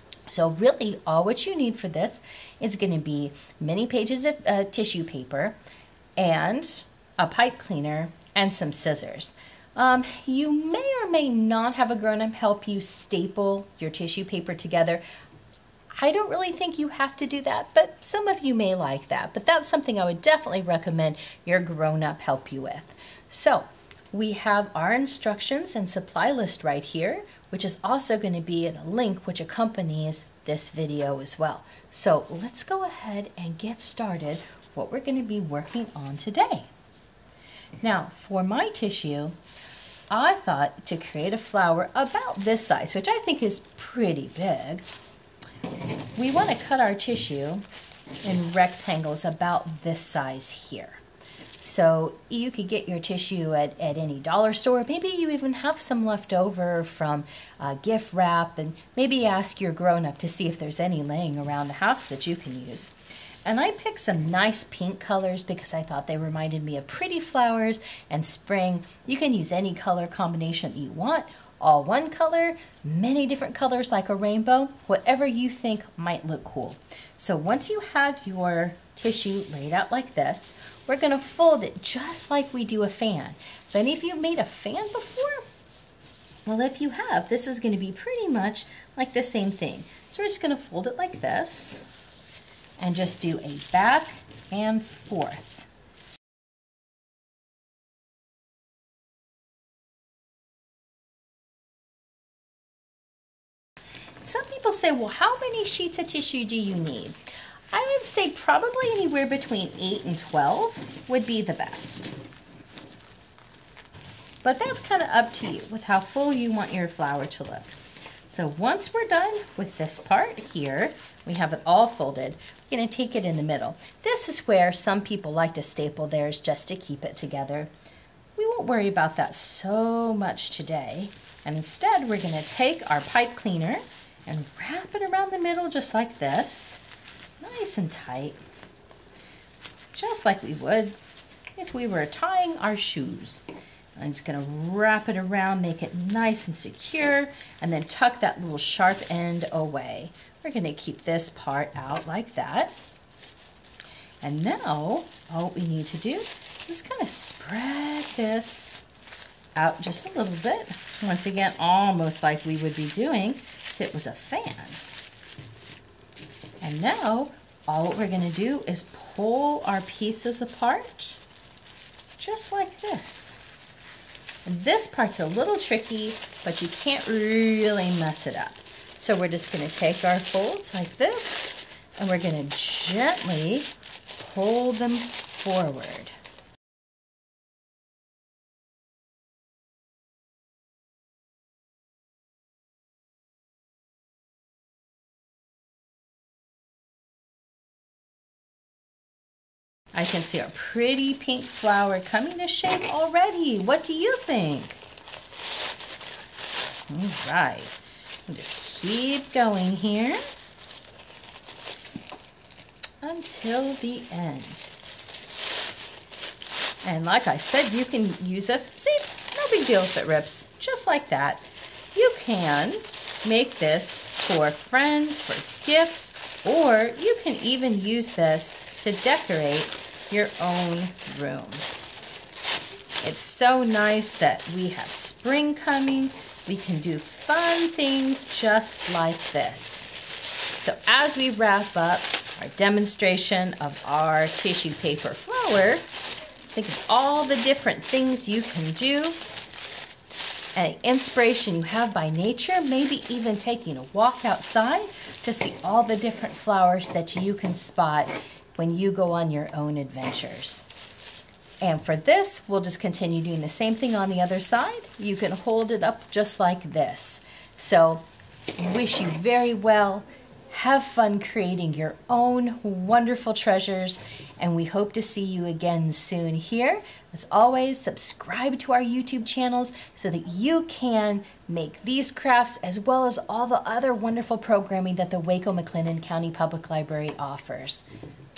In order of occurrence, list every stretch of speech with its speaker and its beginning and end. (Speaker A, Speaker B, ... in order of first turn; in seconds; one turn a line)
Speaker A: 0.3-5.6
Speaker A: 6.2-15.0
Speaker A: 15.9-36.7
Speaker A: 37.8-39.4
Speaker A: 40.1-44.9
Speaker A: 46.1-47.6
Speaker A: 48.2-51.0
Speaker A: 51.6-62.9
Speaker A: 63.4-85.5
Speaker A: 86.5-91.8
Speaker A: 92.8-95.7
Speaker A: 104.2-107.2
Speaker A: 107.7-112.1
Speaker A: 114.4-117.8
Speaker A: 118.3-127.7
Speaker A: 128.4-136.8
Speaker A: 137.4-138.4
Speaker A: 139.9-141.0
Speaker A: 141.6-143.4
Speaker A: 144.0-152.8
Speaker A: 154.2-158.8
Speaker A: 159.6-164.8
Speaker A: 166.6-171.2
Speaker A: 172.2-173.4
Speaker A: 174.5-186.2
Speaker A: 199.9-204.8
Speaker A: 206.9-210.3
Speaker A: 213.0-214.7
Speaker A: 216.8-231.7
Speaker A: 233.0-239.9
Speaker A: 240.6-245.9
Speaker A: 246.5-249.2
Speaker A: 250.6-260.7
Speaker A: 261.6-268.0
Speaker A: 268.6-287.9